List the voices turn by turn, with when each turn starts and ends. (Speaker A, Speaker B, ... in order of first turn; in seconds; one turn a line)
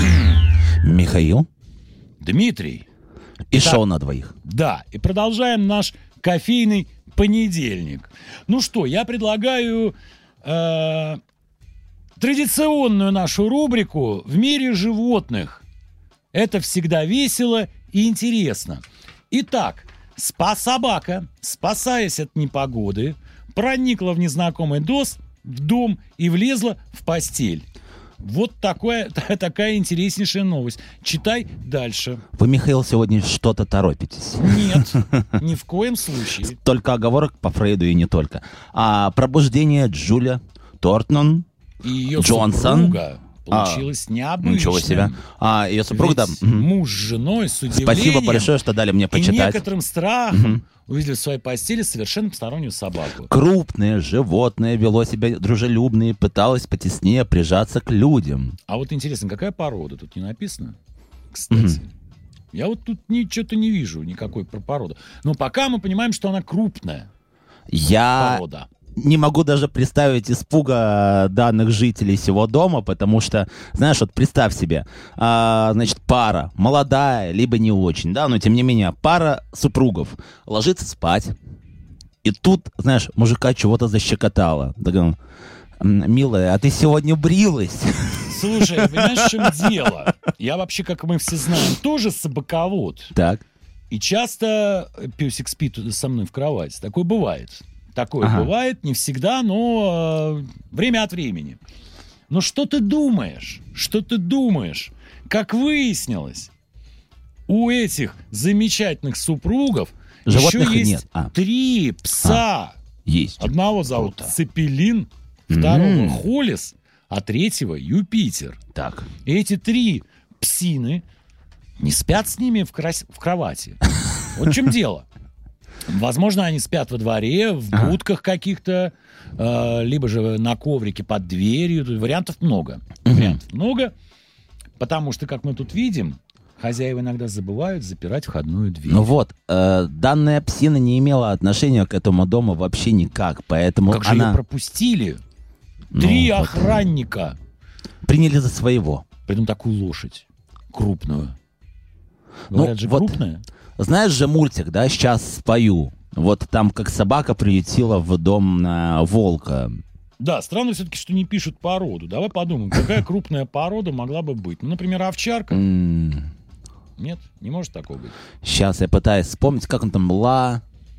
Speaker A: 0.8-1.5
Speaker B: 2.2-2.9
Speaker A: 3.5-4.3
Speaker B: 3.5-3.8
Speaker B: 4.4-11.2
Speaker B: 12.2-15.6
Speaker B: 16.3-27.7
Speaker B: 28.2-32.2
Speaker A: 32.4-35.3
Speaker B: 34.4-36.6
Speaker A: 36.5-41.5
Speaker B: 41.8-45.2
Speaker A: 42.1-43.9
Speaker A: 44.4-46.7
Speaker B: 45.9-48.5
Speaker A: 47.7-49.6
Speaker B: 49.1-53.3
Speaker A: 50.3-50.6
Speaker A: 53.2-58.6
Speaker B: 58.7-60.8
Speaker B: 61.3-61.9
Speaker A: 61.5-61.8
Speaker B: 62.5-67.1
Speaker A: 67.7-68.4
Speaker B: 68.2-68.7
Speaker A: 69.0-81.3
Speaker A: 82.2-85.2
Speaker A: 85.8-90.1
Speaker B: 88.3-93.1
Speaker A: 93.1-93.4
Speaker B: 93.9-101.6
Speaker A: 98.2-98.5
Speaker B: 102.3-106.5
Speaker B: 107.5-112.8
Speaker A: 110.3-111.3
Speaker A: 113.0-114.3
Speaker B: 113.4-118.6
Speaker A: 115.5-116.2
Speaker A: 118.7-119.1
Speaker B: 119.2-121.0
Speaker B: 121.8-125.1
Speaker B: 125.8-133.9
Speaker A: 133.1-133.4
Speaker B: 134.8-139.1
Speaker A: 138.9-144.4
Speaker B: 143.9-145.2
Speaker A: 145.9-146.8
Speaker B: 145.9-147.4
Speaker A: 148.0-149.0
Speaker B: 149.2-151.3
Speaker A: 152.5-153.2
Speaker B: 152.5-153.4
Speaker A: 153.8-159.8
Speaker B: 160.2-165.6
Speaker A: 165.5-166.3
Speaker B: 167.0-168.2
Speaker A: 168.4-170.6